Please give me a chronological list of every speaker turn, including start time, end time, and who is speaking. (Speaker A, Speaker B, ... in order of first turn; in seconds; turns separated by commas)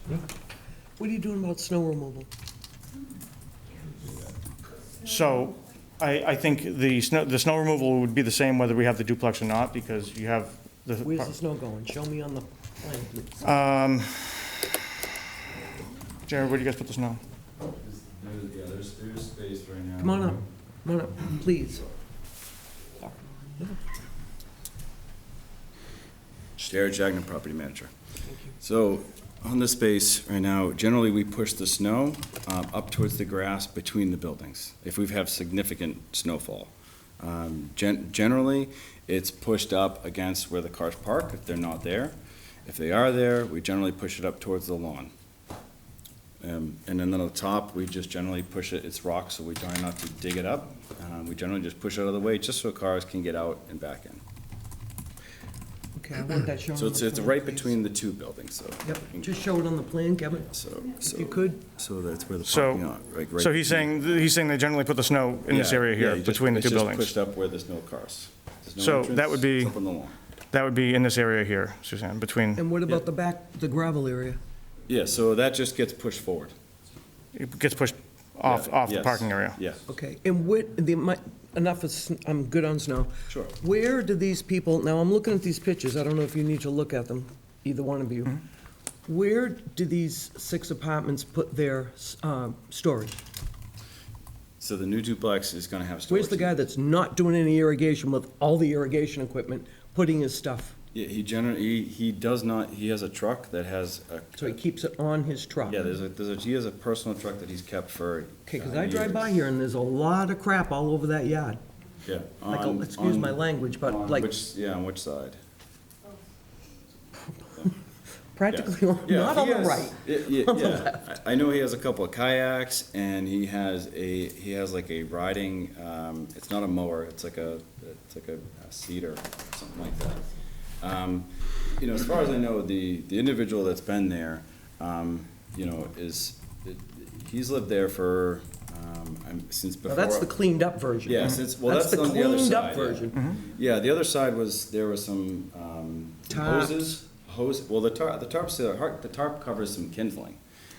Speaker A: 1.0-2.3, Speaker B: 5.0-11.3, Speaker A: 11.0-13.4, Speaker B: 13.4-14.7, Speaker B: 16.3-17.2, Speaker C: 17.7-20.4, Speaker A: 20.0-21.8, Speaker A: 23.0-23.8, Speaker C: 26.6-27.9, Speaker A: 28.3-28.5, Speaker C: 28.6-42.1, Speaker C: 42.7-45.1, Speaker C: 46.4-54.2, Speaker A: 56.0-57.8, Speaker C: 56.7-59.3, Speaker A: 58.8-60.5, Speaker C: 60.5-63.9, Speaker A: 61.0-61.6, Speaker B: 62.5-62.9, Speaker B: 63.4-67.1, Speaker C: 65.5-70.2, Speaker B: 68.8-69.8, Speaker B: 70.5-72.6, Speaker A: 72.6-74.4, Speaker C: 74.9-76.5, Speaker B: 77.3-79.6, Speaker C: 78.4-79.8, Speaker A: 79.9-88.4, Speaker C: 83.3-83.5, Speaker A: 89.1-93.2, Speaker C: 94.6-96.7, Speaker A: 96.1-100.8, Speaker C: 100.9-104.6, Speaker A: 104.4-105.8, Speaker C: 105.7-109.4, Speaker A: 108.5-111.6, Speaker C: 112.0-115.4, Speaker A: 112.5-114.3, Speaker A: 118.3-121.0, Speaker C: 118.5-130.3, Speaker C: 130.8-140.3, Speaker A: 139.9-143.2, Speaker C: 141.1-150.4, Speaker A: 146.3-147.0